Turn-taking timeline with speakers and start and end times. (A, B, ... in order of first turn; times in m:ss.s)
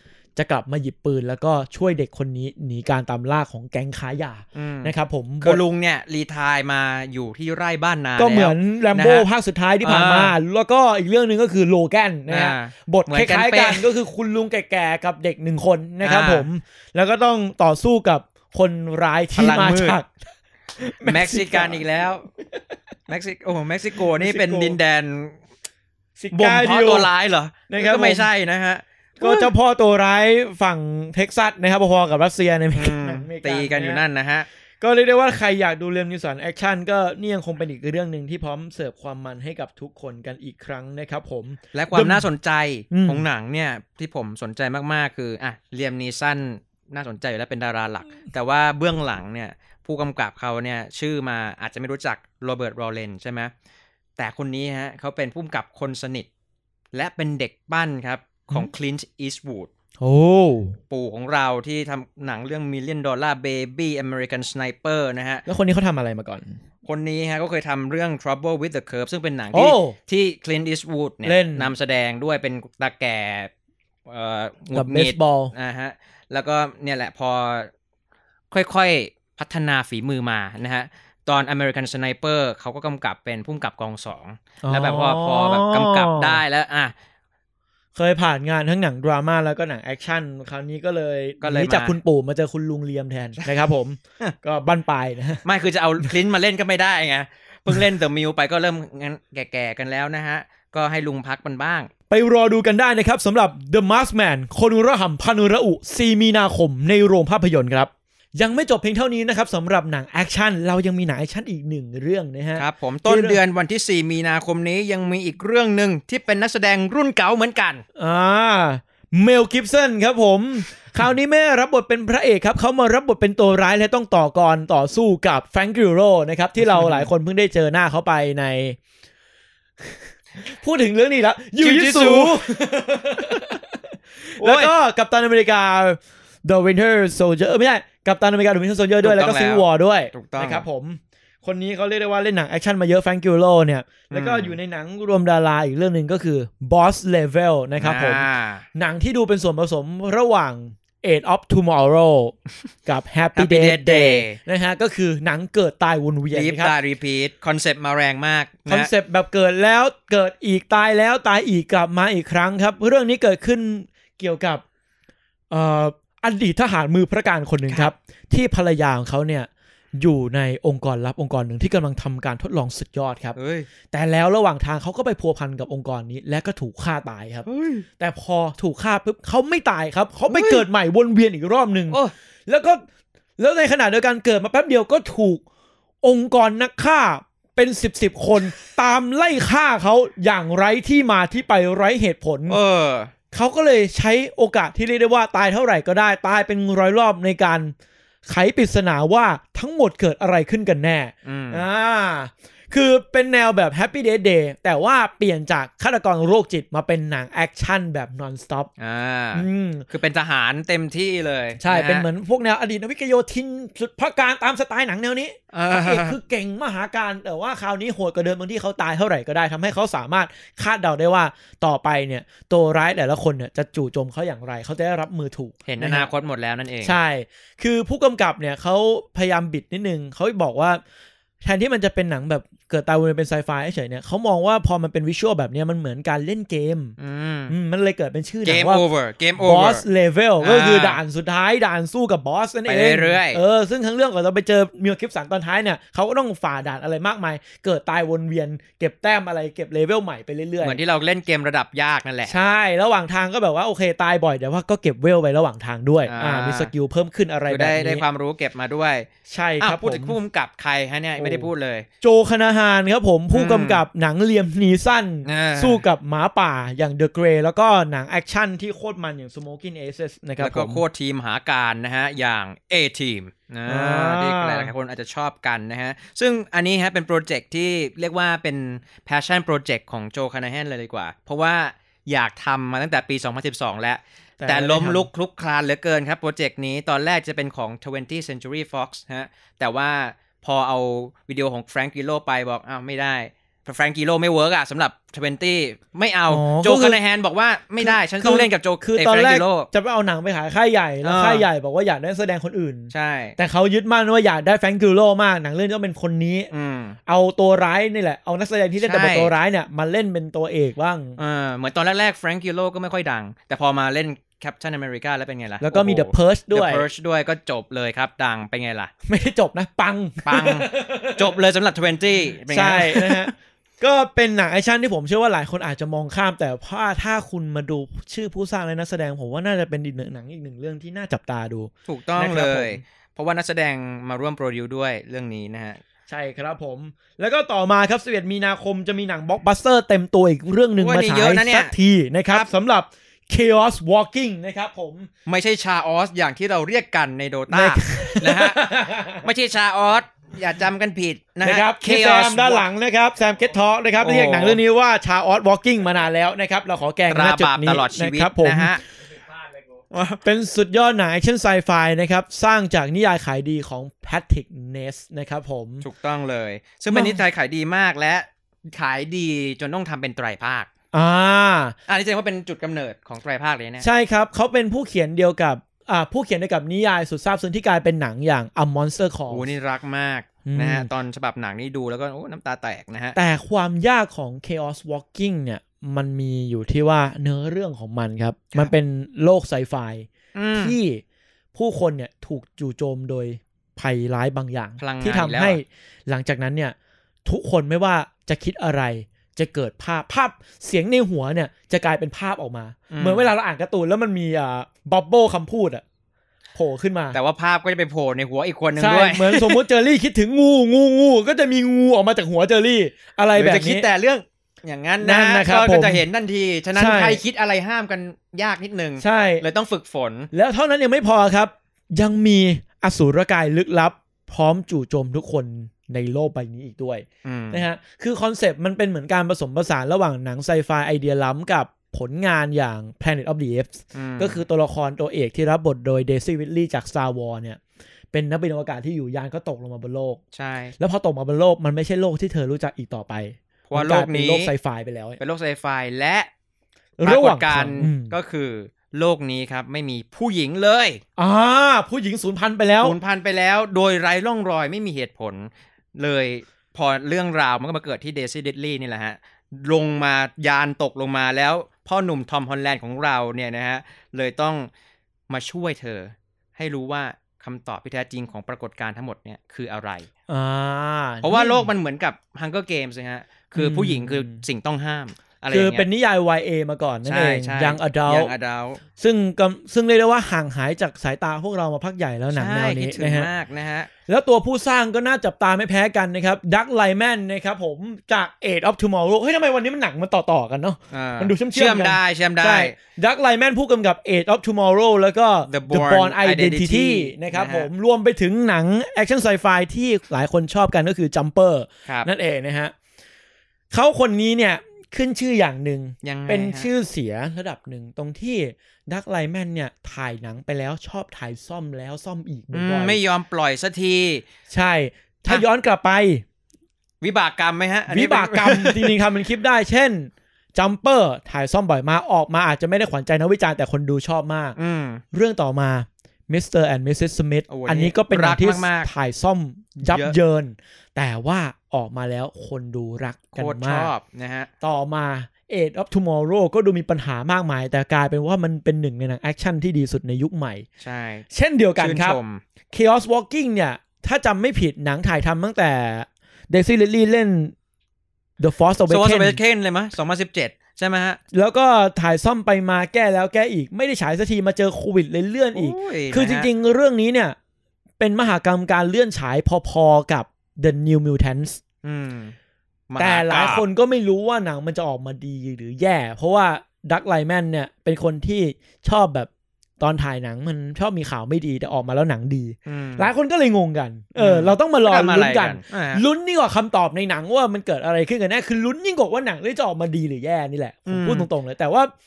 0:00.4-0:05.6 A
0:04.6-0:09.3 B
0:08.2-0:20.2 A
0:09.8-0:10.4 B
0:12.3-0:13.9 B
0:16.0-0:16.5 B
0:19.4-0:20.0 B
0:20.8-0:21.8 A
0:21.0-0:22.3 B
0:23.1-0:25.4 B
0:24.0-0:24.8 A
0:26.2-0:27.1 A
0:26.3-0:29.5 B
0:27.7-0:28.3 A
0:29.2-0:34.0 A
0:32.8-0:34.5 B
0:34.8-0:42.2 A
0:41.7-0:53.5 B
0:42.9-0:43.2 A
0:54.2-0:56.3 B
0:56.9-0:59.7 B
1:00.0-1:00.8 A
1:00.9-1:05.4 B
1:05.5-1:06.6 A
1:06.8-1:13.5 B
1:09.5-1:10.0 A
1:11.2-1:11.7 A
1:14.1-1:17.7 B
1:14.7-1:15.5 A
1:18.5-1:26.9 B
1:24.6-1:26.4 A
1:28.0-1:35.4 A
1:31.4-1:32.0 B
1:35.4-1:41.9 B
1:42.1-1:53.4 A
1:52.6-1:57.8 B
1:58.0-2:08.8 A
2:09.8-2:36.7 A
2:11.6-2:12.5 B
2:14.4-2:14.7 B
2:19.0-2:20.6 B
2:24.1-2:24.6 B
2:27.8-2:28.6 B
2:33.4-2:34.4 B
2:36.3-2:38.9 B
2:38.7-2:44.6 A
2:45.5-2:53.4 A
2:47.7-2:47.9 B
2:53.4-2:53.7 B
2:53.9-3:02.8 A
2:57.5-2:57.8 B
3:00.3-3:00.6 B
3:03.4-3:05.4 A
3:06.0-3:12.6 A
3:12.5-3:13.1 B
3:13.3-3:17.7 A
3:18.3-3:28.7 A
3:21.3-3:21.6 B
3:28.8-3:32.1 B
3:29.4-3:29.9 A
3:31.6-3:46.1 A
3:35.5-3:36.2 B
3:45.7-3:47.0 B
3:46.8-3:50.8 A
3:51.4-3:57.0 A
3:57.0-3:57.6 B
3:57.5-3:58.8 A
3:58.4-3:59.8 B
3:59.4-4:10.8 A
4:00.4-4:01.0 B
4:02.7-4:03.4 B
4:10.6-4:12.4 B
4:12.3-4:18.0 A
4:16.0-4:16.7 B
4:17.5-4:19.1 B
4:19.3-4:20.2 A
4:19.6-4:21.9 B
4:21.2-4:21.5 A
4:22.0-4:30.8 A
4:23.3-4:23.8 B
4:25.2-4:25.8 B
4:30.4-4:59.7 B
4:33.7-4:34.7 A
4:44.4-4:45.1 A
4:56.3-4:57.0 A
4:57.8-5:06.5 A
5:01.0-5:01.4 B
5:02.9-5:03.4 B
5:06.5-5:07.0 B
5:07.1-5:11.2 A
5:08.8-5:09.3 B
5:11.2-5:18.9 B
5:15.6-5:16.9 A
5:19.1-5:21.3 A
5:20.2-5:23.3 B
5:22.5-5:32.8 A
5:31.9-5:35.8 B
5:36.1-5:45.1 A
5:40.8-5:41.7 B
5:45.3-5:52.7 B
5:47.5-5:49.3 A
5:51.4-5:58.8 A
5:54.0-5:54.6 B
5:57.1-5:58.8 B
5:59.9-6:00.2 B
6:00.2-6:05.8 A
6:05.8-6:10.7 B
6:06.9-6:07.2 A
6:10.9-6:11.8 A
6:11.9-6:13.9 B
6:13.8-6:19.5 A
6:19.3-6:23.2 B
6:20.4-6:20.9 A
6:23.2-6:31.0 A
6:30.4-6:30.8 B
6:31.6-6:45.8 A
6:34.8-6:35.6 B
6:42.9-6:43.3 B
6:46.6-6:47.2 A
6:47.1-6:49.6 B
6:48.8-6:53.9 A
6:53.4-7:00.3 B
6:55.0-6:56.0 A
6:56.8-6:57.2 A
6:59.0-6:59.4 A
7:00.3-7:17.6 A
7:07.2-7:07.6 B
7:13.9-7:14.4 B
7:18.1-7:20.2 A
7:20.3-7:20.7 B
7:20.8-7:25.2 A
7:23.7-7:24.5 B
7:25.2-7:26.3 B
7:27.0-7:28.1 A
7:27.0-7:31.0 B
7:31.2-7:33.0 A
7:32.8-7:44.7 B
7:45.3-7:50.1 B
7:50.3-7:51.7 A
7:51.2-7:55.9 B
7:53.5-7:54.4 A
7:55.5-7:58.3 A
7:57.0-7:58.8 B
7:59.0-8:03.3 A
8:02.3-8:03.9 B
8:04.1-8:22.7 A
8:10.9-8:12.8 B
8:15.5-8:17.7 B
8:23.7-8:33.0 A
8:26.0-8:26.7 B
8:32.5-8:34.2 B
8:34.5-8:36.2 A
8:37.0-8:39.0 B
8:37.9-8:44.6 A
8:44.6-8:45.0 B
8:45.1-8:53.9 A
8:47.5-8:48.9 B
8:49.8-8:50.2 B
8:53.4-8:54.5 B
8:54.6-9:00.7 A
9:00.8-9:01.3 B
9:01.3-9:02.2 A
9:01.8-9:02.4 B
9:02.7-9:07.5 A
9:08.4-9:09.4 A
9:08.9-9:11.2 B
9:11.3-9:17.4 A
9:15.6-9:16.5 B
9:18.0-9:21.6 A
9:21.8-9:22.4 B
9:22.9-9:23.6 B
9:23.0-9:29.3 A
9:29.8-9:41.9 A
9:32.7-9:33.1 B
9:34.2-9:36.0 B
9:40.9-9:41.3 B